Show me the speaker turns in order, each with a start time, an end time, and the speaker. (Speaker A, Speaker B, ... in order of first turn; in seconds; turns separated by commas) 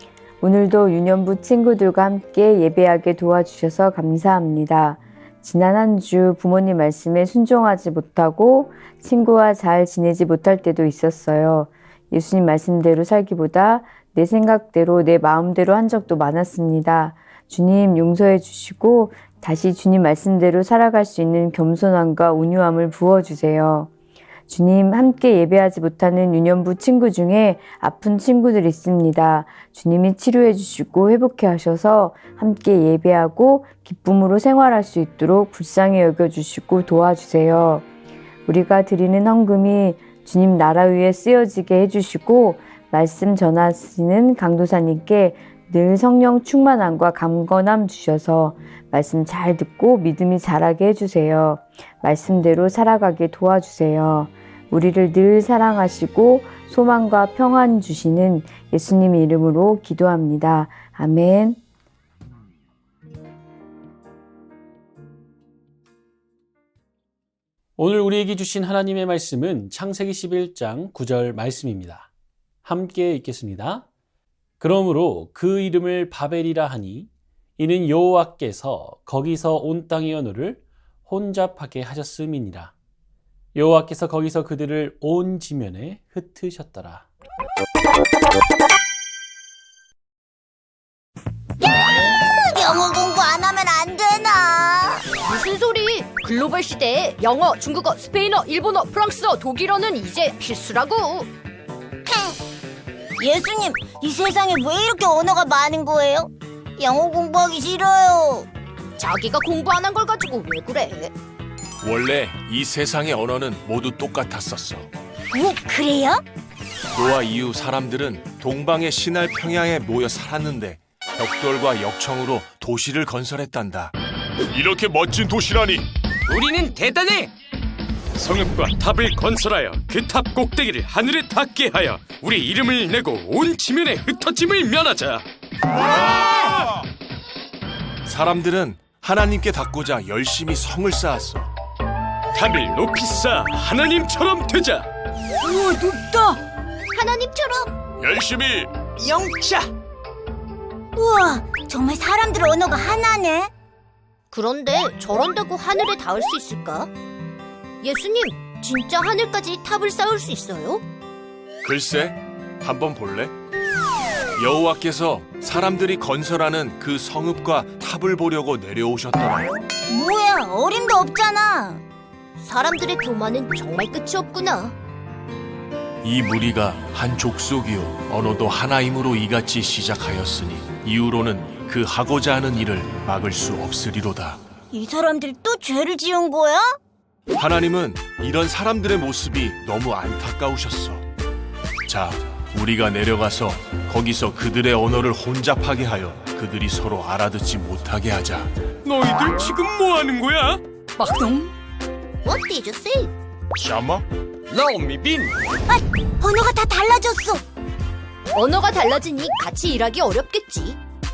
Speaker A: 0.4-23.9, Speaker A: 24.5-37.9, Speaker A: 38.5-61.6, Speaker B: 67.8-72.1, Speaker B: 72.6-73.9, Speaker B: 74.6-82.7, Speaker B: 83.5-87.1, Speaker C: 92.2-95.0, Speaker D: 95.2-101.3, Speaker C: 102.0-102.3, Speaker C: 103.2-108.5, Speaker D: 109.0-111.1, Speaker E: 111.8-114.9, Speaker C: 115.3-116.2, Speaker E: 116.9-123.9, Speaker E: 124.5-125.9, Speaker F: 126.3-127.3, Speaker F: 128.2-135.2, Speaker E: 138.0-141.5, Speaker F: 142.3-144.9, Speaker F: 145.4-146.3, Speaker D: 146.9-147.7, Speaker E: 148.0-148.7, Speaker C: 150.9-153.5, Speaker D: 154.3-156.9, Speaker D: 157.8-160.8, Speaker E: 161.6-163.3, Speaker E: 164.3-169.5, Speaker C: 169.9-171.8, Speaker D: 172.4-174.8, Speaker E: 176.0-184.4, Speaker C: 184.7-186.8, Speaker E: 187.3-191.0, Speaker E: 191.9-198.5, Speaker F: 198.8-201.5, Speaker D: 202.7-203.1, Speaker E: 203.6-204.0, Speaker F: 204.5-205.3, Speaker C: 205.7-207.4, Speaker D: 208.3-210.8